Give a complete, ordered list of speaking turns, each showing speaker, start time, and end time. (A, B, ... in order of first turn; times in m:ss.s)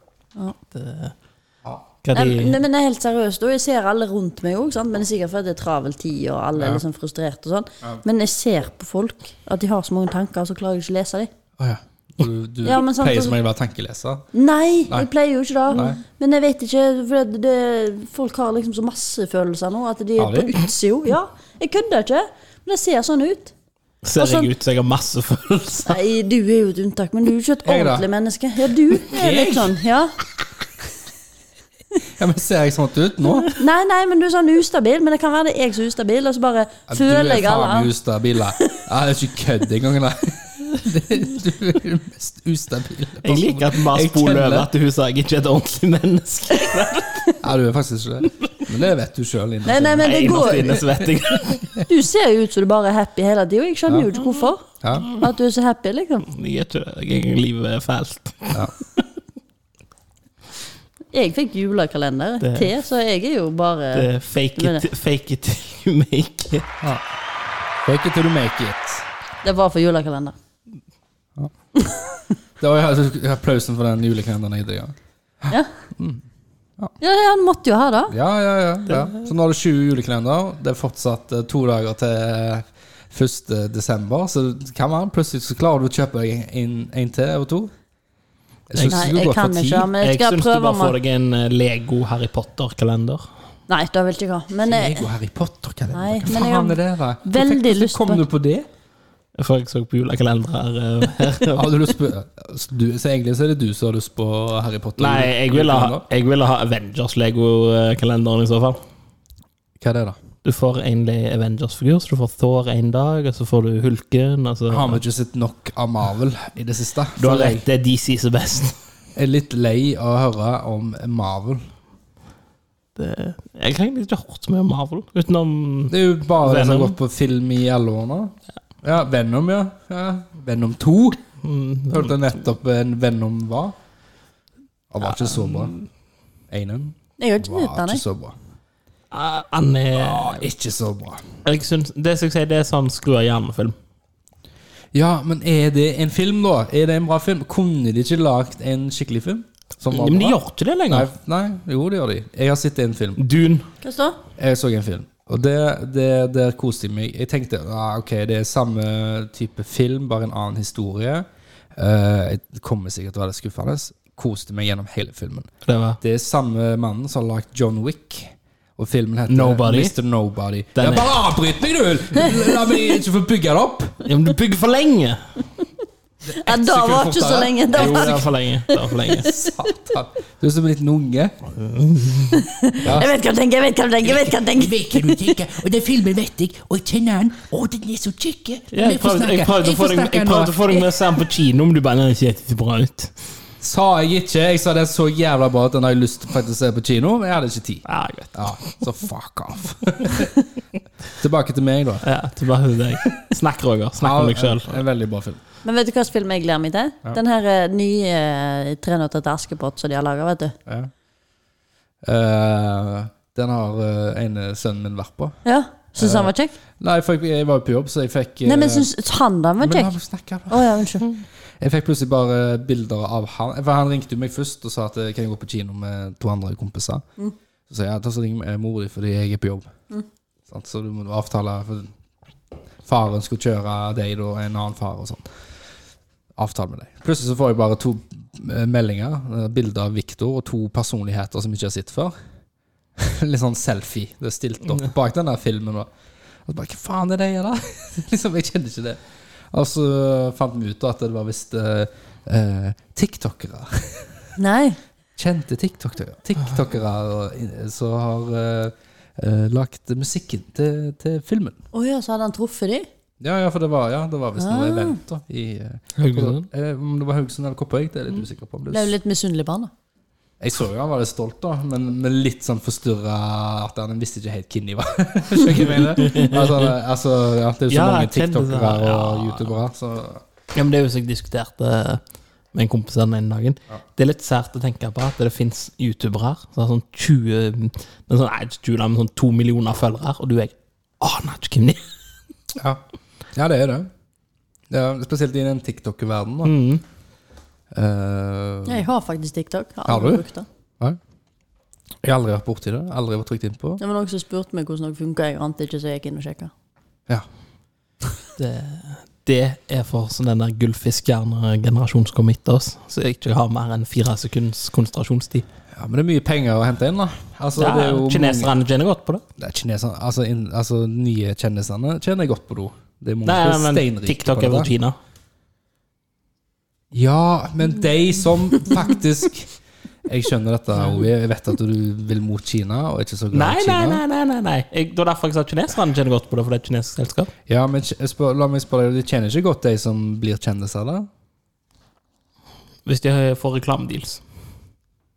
0:00.7-0:01.1 A
0:02.0-0:02.6 A
0:02.1-0:11.3 B
0:06.6-0:06.8 C
0:11.6-0:14.2 C
0:12.6-0:13.4 B
0:14.3-0:23.5 B
0:15.7-0:16.0 C
0:20.2-0:20.5 C
0:24.0-0:26.0 A
0:24.2-0:24.5 B
0:25.8-0:30.1 B
0:27.6-0:28.1 C
0:29.0-0:29.8 C
0:32.1-0:33.6 C
0:33.5-0:37.9 B
0:36.9-0:44.7 C
0:43.2-0:47.4 A
0:47.4-0:51.8 C
0:49.6-0:50.9 B
0:50.0-0:51.7 A
0:51.8-0:56.3 B
0:54.8-0:55.1 C
0:56.3-0:59.0 A
1:01.1-1:04.8 B
1:02.4-1:02.7 A
1:03.9-1:06.7 A
1:07.8-1:09.0 C
1:09.4-1:10.3 B
1:11.8-1:12.2 B
1:12.6-1:16.2 C
1:17.0-1:18.1 B
1:18.1-1:27.7 C
1:28.7-1:29.9 C
1:28.8-1:31.0 B
1:30.0-1:33.2 A
1:33.7-1:35.1 B
1:34.6-1:38.7 C
1:35.9-1:38.2 B
1:39.4-1:41.8 A
1:41.5-1:46.0 C
1:45.0-1:48.8 A
1:49.8-1:50.2 C
1:50.4-1:55.0 A
1:54.7-1:57.6 C
1:57.2-1:58.8 A
1:59.2-2:01.6 C
2:03.0-2:07.0 A
2:05.9-2:11.2 C
2:11.4-2:12.1 A
2:11.9-2:13.7 C
2:14.9-2:15.7 C
2:15.1-2:15.8 A
2:16.5-2:18.4 C
2:17.2-2:18.0 B
2:19.1-2:20.5 A
2:19.9-2:21.3 C
2:21.4-2:23.7 A
2:24.9-2:30.4 C
2:29.9-2:31.1 A
2:30.9-2:33.2 C
2:33.2-2:33.7 A
2:33.8-2:34.2 B
2:34.4-2:45.5 C
2:45.6-2:46.0 A
2:46.0-2:54.0 C
2:49.3-2:49.9 A
2:50.8-2:51.2 A
2:54.0-2:55.2 A
2:56.2-2:58.3 C
2:56.3-2:59.7 B
2:57.7-2:59.3 A
2:59.2-3:01.3 C
3:01.6-3:02.4 A
3:02.3-3:05.3 B
3:02.8-3:03.1 C
3:04.0-3:10.9 C
3:08.7-3:13.2 A
3:13.6-3:20.3 C
3:17.8-3:18.9 A
3:21.2-3:22.0 C
3:22.0-3:24.8 A
3:24.0-3:25.4 C
3:25.6-3:30.5 B
3:32.0-3:35.4 C
3:35.4-3:36.5 B
3:36.0-3:38.9 C
3:38.4-3:39.9 B
3:39.6-3:41.1 C
3:40.5-3:41.1 B
3:41.6-3:47.0 C
3:47.7-3:49.7 C
3:50.5-3:51.9 C
3:52.8-3:55.3 C
3:56.4-4:02.1 C
4:03.0-4:05.9 C
4:06.4-4:09.0 C
4:09.5-4:14.2 C
4:14.4-4:14.8 B
4:15.2-4:21.6 C
4:21.7-4:22.9 B
4:23.2-4:28.9 C
4:24.4-4:25.0 B
4:26.0-4:26.5 A
4:28.7-4:29.7 B
4:30.4-4:40.2 C
4:35.8-4:36.7 A
4:37.7-4:39.5 A
4:40.5-4:42.0 A
4:42.5-4:51.8 A
4:52.5-4:52.8 C
4:53.3-4:53.9 C
4:54.7-4:56.5 C
4:56.4-4:56.8 A
4:57.7-4:58.8 C
4:58.7-5:00.4 B
4:59.9-5:00.2 C
5:02.0-5:03.8 C
5:03.8-5:06.5 B
5:08.4-5:15.5 A
5:15.7-5:18.5 C
5:17.6-5:19.2 A
5:19.4-5:24.7 C
5:23.2-5:25.0 A
5:26.9-5:29.5 C
5:30.0-5:34.0 C
5:33.3-5:37.3 A
5:37.5-5:41.1 C
5:42.8-5:44.2 A